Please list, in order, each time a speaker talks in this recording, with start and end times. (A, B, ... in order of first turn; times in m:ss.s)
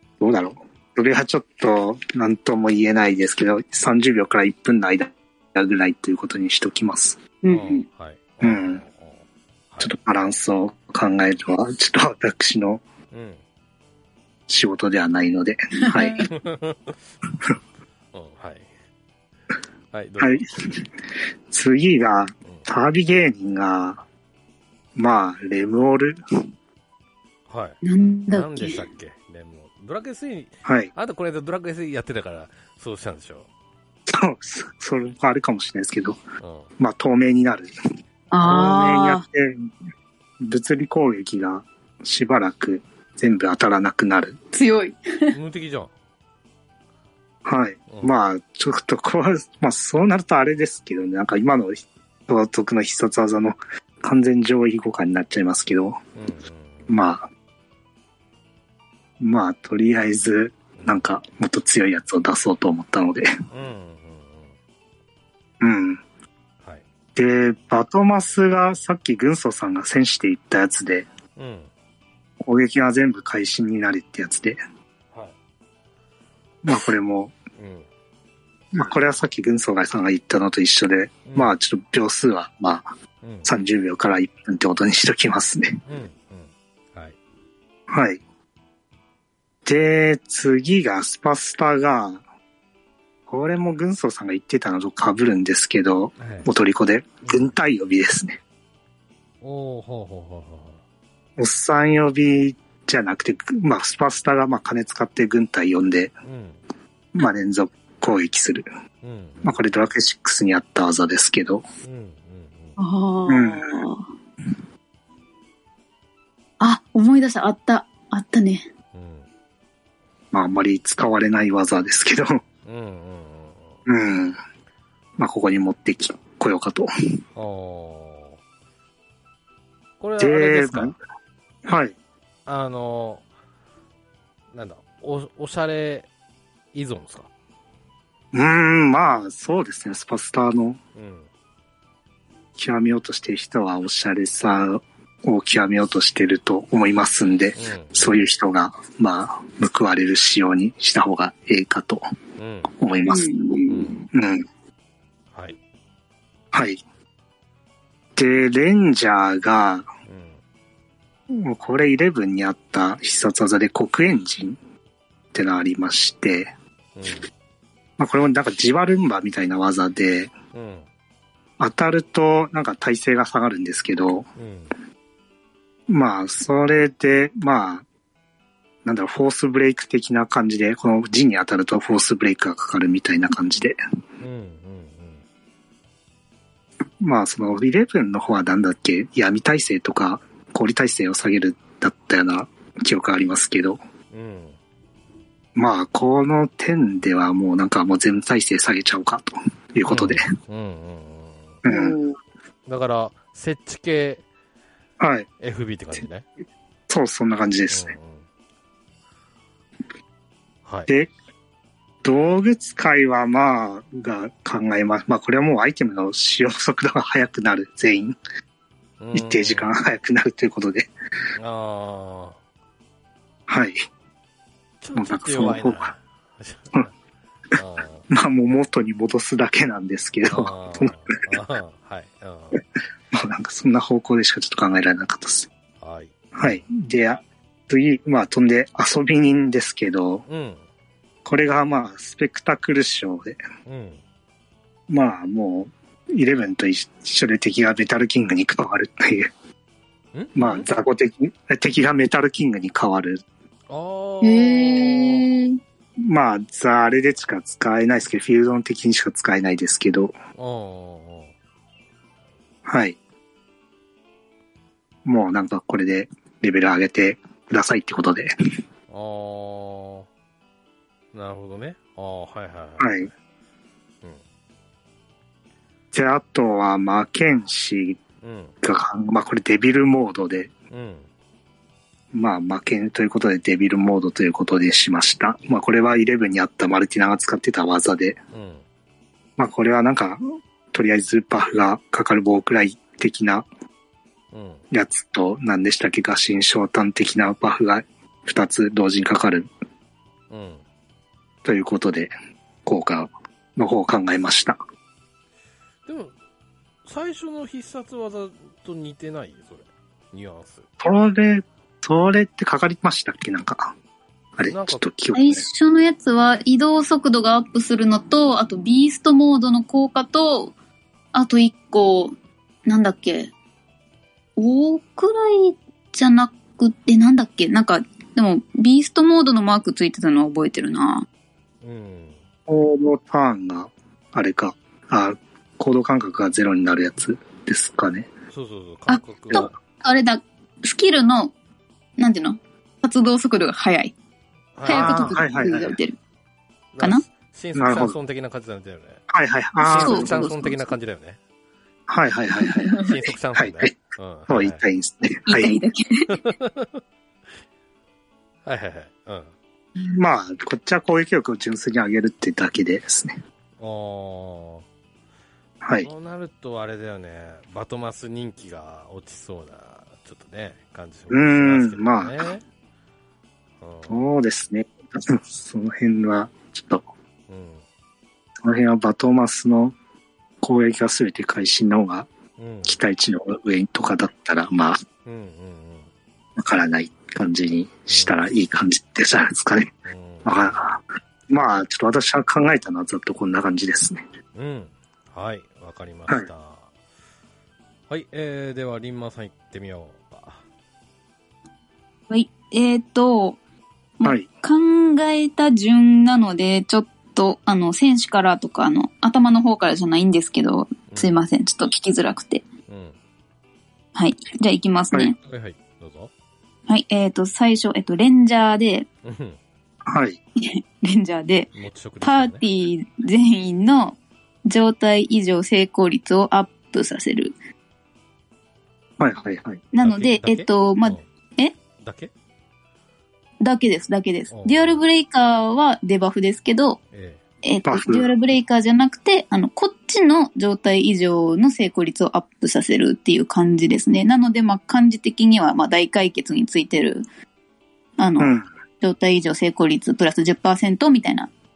0:00.2-0:07.2 A
0:07.4-0:07.8 B
0:07.5-0:09.9 C
0:08.4-0:08.8 A
0:09.8-0:12.8 A
0:13.1-0:13.4 C
0:14.5-0:16.3 A
0:15.9-0:16.3 B
0:16.3-0:17.0 C
0:18.1-0:18.7 C
0:19.9-0:20.4 C
0:20.2-0:20.8 A
0:21.5-0:24.0 A
0:25.0-0:26.2 A
0:27.5-0:27.8 C
0:27.8-0:28.8 B
0:28.3-0:33.5 C
0:30.6-0:30.9 A
0:34.1-0:36.2 A
0:36.4-0:36.7 C
0:36.8-0:37.7 A
0:38.3-0:39.2 B
0:38.4-0:39.7 A
0:40.4-0:44.4 A
0:44.5-0:45.4 B
0:45.3-0:45.9 C
0:47.4-0:56.0 A
0:56.2-0:56.9 C
0:56.9-0:57.3 A
0:59.2-1:03.3 A
1:00.8-1:01.0 C
1:03.5-1:04.6 C
1:05.6-1:06.0 A
1:07.2-1:11.1 A
1:11.4-1:11.7 C
1:12.4-1:14.6 A
1:16.6-1:17.4 A
1:17.6-1:17.9 C
1:18.7-1:22.9 A
1:21.3-1:21.5 C
1:23.2-1:23.5 C
1:23.4-1:25.8 A
1:25.9-1:27.2 C
1:27.9-1:28.2 A
1:29.6-1:32.2 A
1:33.3-1:38.4 A
1:36.2-1:36.5 C
1:39.4-1:40.8 C
1:41.4-1:46.1 A
1:46.2-1:46.6 C
1:47.2-1:48.7 A
1:49.0-1:49.6 C
1:49.4-1:51.6 A
1:51.8-1:52.8 C
1:52.8-1:54.1 B
1:53.3-1:53.7 A
1:56.6-1:58.7 B
1:58.9-1:59.3 C
2:00.3-2:02.4 A
2:02.6-2:03.8 C
2:03.9-2:04.4 A
2:05.2-2:06.9 A
2:07.4-2:08.4 C
2:10.0-2:10.9 C
2:10.2-2:11.0 A
2:11.6-2:12.0 A
2:12.5-2:13.2 C
2:14.5-2:16.1 C
2:16.7-2:17.3 C
2:18.3-2:20.8 A
2:21.0-2:21.3 C
2:22.6-2:32.0 A
2:27.6-2:28.2 C
2:32.4-2:32.7 C
2:32.7-2:33.3 A
2:33.1-2:34.0 B
2:33.7-2:34.0 C
2:34.1-2:34.4 A
2:36.5-2:36.8 A
2:38.2-2:39.9 A
2:40.1-2:40.4 C
2:41.3-2:44.6 A
2:45.3-2:46.5 A
2:47.0-2:47.3 C
2:48.0-2:50.3 A
2:50.5-2:50.9 C
2:51.6-2:54.3 A
2:54.4-2:54.7 C
2:55.9-2:57.8 A
2:58.8-3:03.8 A
3:04.2-3:05.2 C
3:07.0-3:13.8 A
3:14.1-3:14.6 C
3:15.6-3:20.2 A
3:19.9-3:21.6 C
3:21.6-3:22.0 A
3:21.6-3:22.2 B
3:22.7-3:24.2 C
3:25.0-3:25.3 A
3:25.4-3:26.2 C
3:26.9-3:28.0 A
3:27.7-3:28.2 C
3:32.0-3:38.2 A
3:39.0-3:39.7 C
3:39.1-3:40.9 A
3:41.4-3:42.4 C
3:43.5-3:43.8 A
3:44.8-3:46.9 C
3:45.0-3:45.9 A
3:47.6-3:48.1 C
3:48.1-3:51.0 A
3:50.3-3:52.6 C
3:53.1-3:55.5 A
3:55.8-3:56.6 C
3:56.4-4:00.2 A
4:00.3-4:00.6 C
4:01.2-4:03.4 A
4:03.7-4:04.0 C
4:04.9-4:09.3 A
4:10.1-4:10.8 C
4:10.4-4:13.2 A
4:13.7-4:15.3 C
4:14.2-4:15.6 B
4:16.0-4:20.2 A
4:20.4-4:21.3 C
4:22.6-4:23.0 A
4:25.0-4:28.3 A
4:28.9-4:30.1 C
4:31.1-4:33.1 C
4:32.8-4:33.1 A
4:35.9-4:38.0 A
4:38.2-4:38.6 C
4:38.6-4:40.5 A
4:40.7-4:41.1 C
4:42.1-4:48.2 A
4:48.3-4:48.6 C
4:49.4-4:53.5 A
4:54.3-4:54.6 C
4:54.7-4:59.5 A
5:00.3-5:00.6 C
5:01.4-5:02.1 A
5:02.7-5:04.6 A
5:05.9-5:06.1 C
5:06.8-5:10.7 C
5:10.8-5:13.7 A
5:14.4-5:15.4 A
5:14.5-5:14.9 C
5:15.1-5:20.5 B
5:21.1-5:22.1 B
5:22.7-5:23.3 B
5:24.4-5:31.1 B
5:31.6-5:32.2 C
5:32.5-5:38.1 A
5:38.3-5:39.5 C
5:38.9-5:41.3 B
5:42.0-5:43.9 B
5:44.6-5:45.2 C
5:44.7-5:46.0 B
5:44.7-5:45.8 A
5:46.7-5:49.0 C
5:47.6-5:48.0 A
5:49.1-5:50.4 A
5:49.6-5:51.2 C
5:49.8-5:50.7 B
5:51.9-5:52.8 A
5:52.4-5:52.9 B
5:52.8-5:54.6 C
5:53.4-5:53.8 A
5:54.3-5:55.5 A
5:55.3-5:56.2 B
5:56.1-5:56.8 C
5:58.4-5:59.3 C
5:59.8-6:03.2 A
6:03.6-6:04.6 C
6:05.6-6:05.9 A
6:05.8-6:12.4 C
6:11.1-6:12.2 A
6:13.6-6:14.0 C
6:13.9-6:16.8 A
6:17.3-6:17.6 C
6:18.4-6:19.8 A
6:20.4-6:22.1 A
6:22.4-6:22.8 C
6:22.7-6:24.8 A
6:25.0-6:25.9 C
6:26.4-6:29.7 A
6:27.9-6:28.2 C
6:29.9-6:30.6 C
6:30.2-6:34.0 A
6:34.4-6:36.7 C
6:37.9-6:40.4 C
6:42.1-6:43.4 B
6:44.0-6:52.4 B
6:50.9-6:51.2 C
6:52.7-6:53.0 C
6:54.0-6:55.2 B
6:55.2-6:56.1 C
6:56.7-6:58.9 B
6:59.0-6:59.4 C
6:59.9-7:00.2 A
7:00.4-7:01.5 B
7:01.6-7:02.4 C
7:02.0-7:07.4 B
7:09.0-7:09.6 A
7:09.7-7:11.6 B
7:09.8-7:11.0 C
7:11.8-7:12.1 C
7:13.4-7:16.8 B
7:14.3-7:14.8 C
7:16.9-7:17.2 C
7:17.4-7:27.0 B
7:17.7-7:18.1 A
7:28.0-7:31.3 B
7:28.2-7:28.5 A